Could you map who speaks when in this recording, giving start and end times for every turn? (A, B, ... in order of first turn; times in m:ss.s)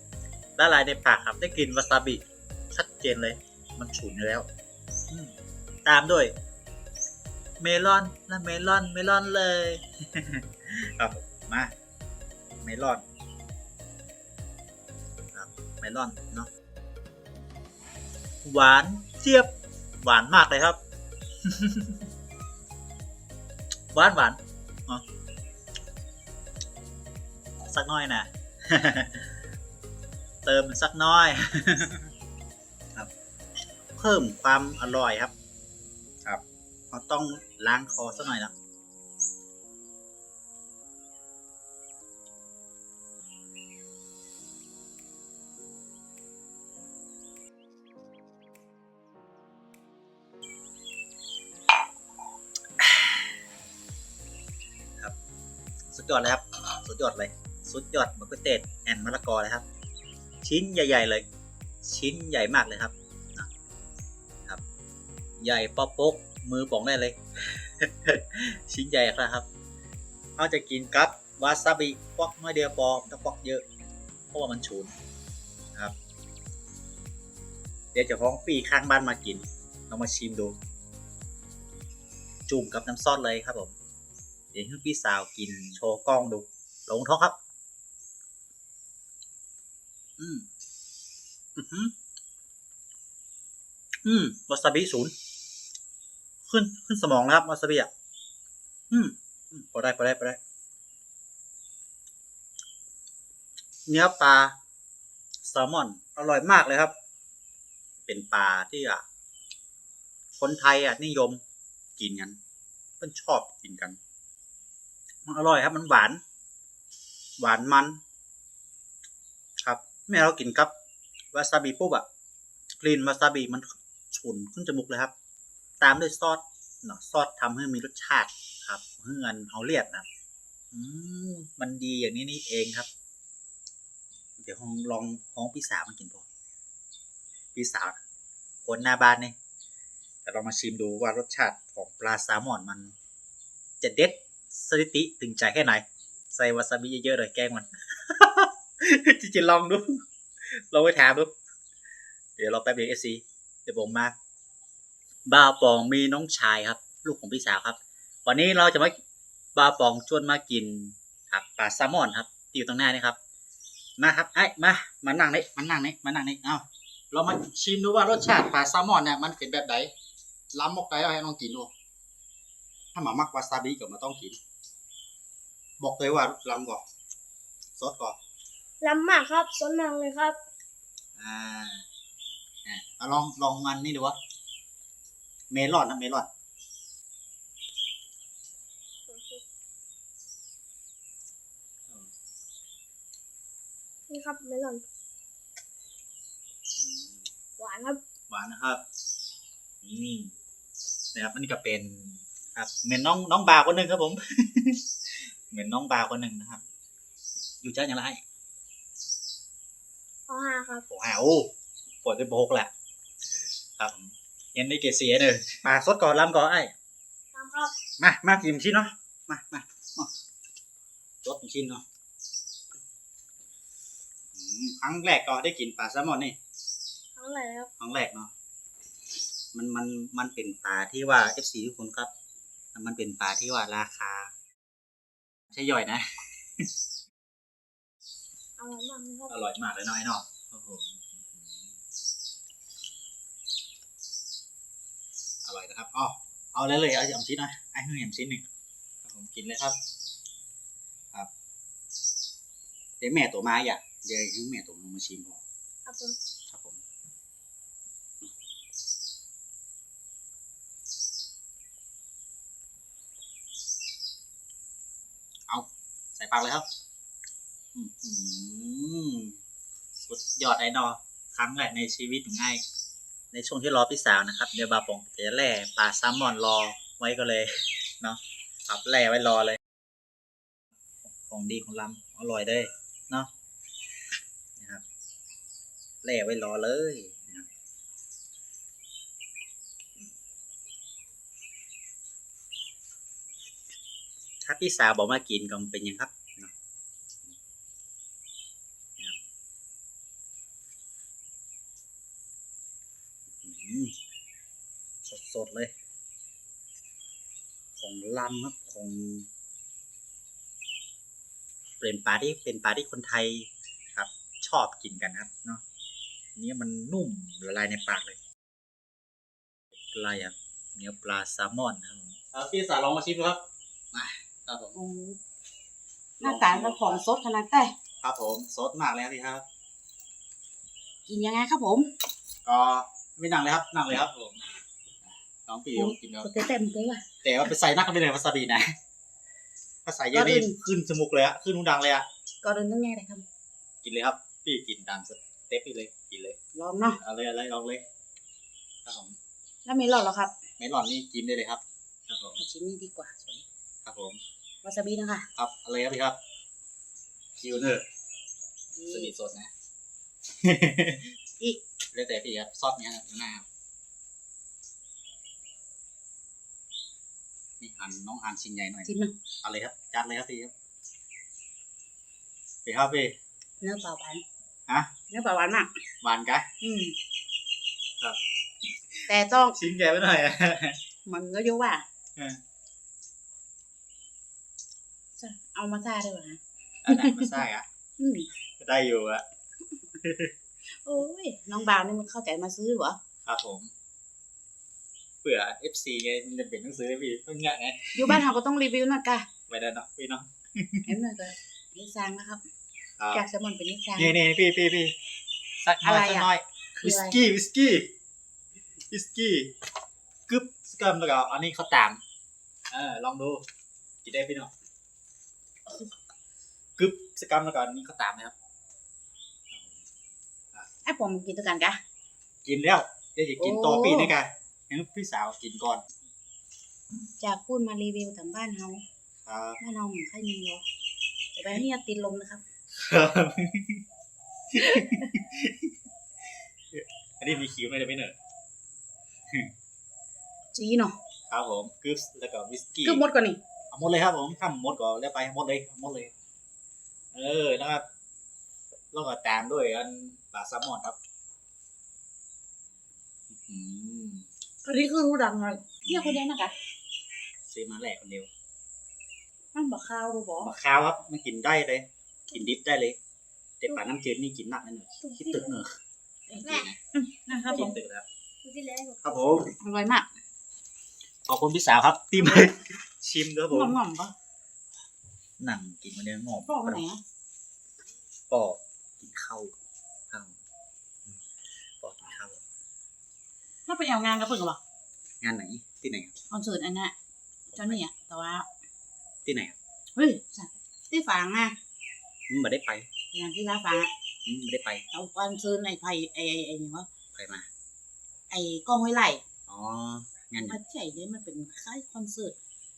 0:00.6-0:04.5 A
0:05.1-0:06.3 A
0:07.6-0:11.7 A
0:12.6-0:13.0 A
0:15.3-0:16.5 A
0:18.4-0:20.8 A
0:21.4-0:22.0 A
0:23.9-0:25.0 A
0:27.6-0:29.3 A
0:30.4-0:32.1 A
0:34.0-0:35.3 A
0:36.2-0:38.5 A
0:52.8-0:53.2 A
0:55.9-0:59.6 A
1:00.4-1:01.2 A
1:01.8-1:03.5 A
1:05.4-1:09.5 A
1:10.4-1:13.6 A
1:14.3-1:14.9 A
1:17.9-1:20.6 A
1:22.5-1:23.8 A
1:24.5-1:27.4 A
1:30.2-1:30.4 A
1:31.6-1:31.9 A
1:34.0-1:35.1 A
1:36.4-1:37.9 A
1:38.9-1:40.4 A
1:43.9-1:44.6 A
1:45.4-1:46.9 A
1:48.1-1:49.0 A
1:50.4-1:51.4 A
1:52.0-1:52.4 A
1:53.0-1:54.0 A
1:55.2-1:56.2 A
1:57.4-1:58.0 A
1:59.6-2:00.7 A
2:01.3-2:02.0 A
2:02.8-2:05.1 A
2:05.8-2:10.0 A
2:10.7-2:12.9 A
2:14.4-2:16.3 A
2:17.5-2:18.0 A
2:18.6-2:19.3 A
2:20.2-2:22.9 A
2:23.8-2:31.3 A
2:32.4-2:34.1 A
2:35.2-2:39.0 A
2:39.6-2:43.2 A
2:44.0-2:49.9 A
2:50.5-2:51.7 A
2:52.9-2:54.4 A
2:55.8-2:56.8 A
2:57.8-2:58.2 A
2:58.8-3:00.4 B
3:01.2-3:01.8 A
3:02.6-3:04.2 A
3:05.5-3:06.3 A
3:09.1-3:09.4 B
3:14.1-3:14.8 B
3:16.8-3:17.2 A
3:17.6-3:18.0 B
3:18.3-3:18.8 A
3:19.8-3:20.3 A
3:21.1-3:24.8 A
3:25.5-3:26.6 A
3:27.6-3:28.2 A
3:30.3-3:30.8 B
3:30.9-3:31.5 A
3:32.0-3:32.7 A
3:33.8-3:36.7 A
3:37.3-3:37.7 B
3:38.0-3:40.1 A
3:41.2-3:41.8 A
3:44.3-3:46.4 A
3:47.2-3:47.7 B
3:47.8-3:48.3 A
3:49.5-3:52.1 A
3:52.7-3:54.3 A
3:55.5-3:56.6 A
3:58.6-3:59.4 B
3:59.3-4:01.7 A
4:05.4-4:08.4 A
4:09.0-4:09.8 A
4:13.0-4:15.4 A
4:15.8-4:16.1 B
4:16.5-4:16.8 A
4:25.5-4:26.6 A
4:27.7-4:29.4 A
4:30.0-4:32.6 A
4:33.3-4:39.6 A
4:41.2-4:43.3 A
4:46.0-4:47.5 A
4:54.4-4:56.5 A
5:03.4-5:03.9 A
5:05.0-5:05.7 A
5:07.8-5:09.3 A
5:11.8-5:15.6 A
5:16.4-5:18.2 A
5:19.9-5:24.8 A
5:24.7-5:25.2 C
5:26.2-5:27.7 C
5:26.2-5:27.0 A
5:28.0-5:29.4 A
5:31.1-5:31.9 C
5:32.4-5:34.4 A
5:35.1-5:36.3 A
5:35.8-5:37.0 C
5:37.2-5:38.7 A
5:39.8-5:42.1 A
5:40.1-5:40.6 C
5:42.4-5:43.2 C
5:43.8-5:46.4 A
5:46.5-5:47.0 C
5:47.0-5:47.8 A
5:48.8-5:49.2 A
5:49.6-5:50.3 C
5:50.6-5:52.4 A
5:52.4-5:53.4 C
5:53.8-5:54.2 A
5:54.6-5:55.3 C
5:55.4-5:56.2 A
5:57.4-5:57.8 A
5:58.8-5:59.1 C
5:58.9-5:59.5 A
6:00.4-6:01.0 A
6:01.9-6:03.5 A
6:07.6-6:10.5 A
6:08.9-6:09.1 C
6:12.6-6:13.2 A
6:13.6-6:14.2 C
6:14.7-6:14.9 A
6:15.1-6:15.7 C
6:16.0-6:16.5 A
6:16.6-6:17.0 C
6:18.9-6:20.8 A
6:19.1-6:19.6 C
6:21.0-6:21.8 C
6:25.2-6:26.4 C
6:26.8-6:27.7 A
6:26.9-6:27.3 C
6:28.0-6:28.3 C
6:28.6-6:29.2 A
6:30.0-6:30.3 A
6:30.8-6:33.0 C
6:33.2-6:33.7 A
6:35.2-6:38.2 A
6:37.9-6:39.2 C
6:39.5-6:40.9 A
6:40.9-6:42.4 C
6:43.0-6:43.2 A
6:43.1-6:44.2 C
6:44.0-6:44.9 A
6:45.6-6:47.9 A
6:45.8-6:46.3 C
6:46.8-6:47.2 C
6:48.9-6:49.5 A
6:50.3-6:52.0 A
6:52.7-6:53.4 A
6:54.0-6:54.5 A
6:56.8-6:58.3 A
7:00.8-7:01.8 C
7:02.4-7:05.8 A
7:03.4-7:04.1 C
7:07.2-7:08.8 C
7:09.2-7:09.6 A
7:09.6-7:10.6 C
7:11.3-7:12.4 C
7:12.7-7:13.8 A
7:14.5-7:15.7 A
7:16.7-7:18.1 A
7:20.5-7:20.9 C
7:21.3-7:23.0 A
7:22.8-7:23.4 C
7:23.7-7:26.1 A
7:27.1-7:27.8 A
7:28.9-7:31.0 A
7:33.3-7:34.3 A
7:34.6-7:36.5 C
7:35.8-7:36.2 A
7:37.4-7:38.3 A
7:39.5-7:40.5 C
7:40.4-7:43.0 A
7:43.6-7:45.7 A
7:46.3-7:47.8 C
7:46.4-7:46.8 A
7:47.4-7:47.6 B
7:47.4-7:48.0 A
7:48.4-7:49.2 B
7:49.0-7:49.5 A
7:49.6-7:50.1 C
7:51.2-7:53.8 A
7:53.5-7:54.1 C
7:55.4-7:56.8 A
7:56.4-7:57.0 C
7:58.3-7:59.5 A
8:00.1-8:00.3 A
8:01.8-8:02.4 A
8:03.6-8:04.6 C
8:05.2-8:06.1 A
8:06.3-8:06.9 C
8:07.5-8:07.8 A
8:07.5-8:08.5 C
8:09.2-8:09.6 A
8:10.0-8:11.5 C
8:12.3-8:12.9 A
8:13.1-8:13.9 C
8:14.2-8:14.8 A
8:14.9-8:16.9 C
8:17.1-8:17.5 A
8:18.3-8:19.2 C
8:19.5-8:20.6 A
8:20.5-8:22.4 C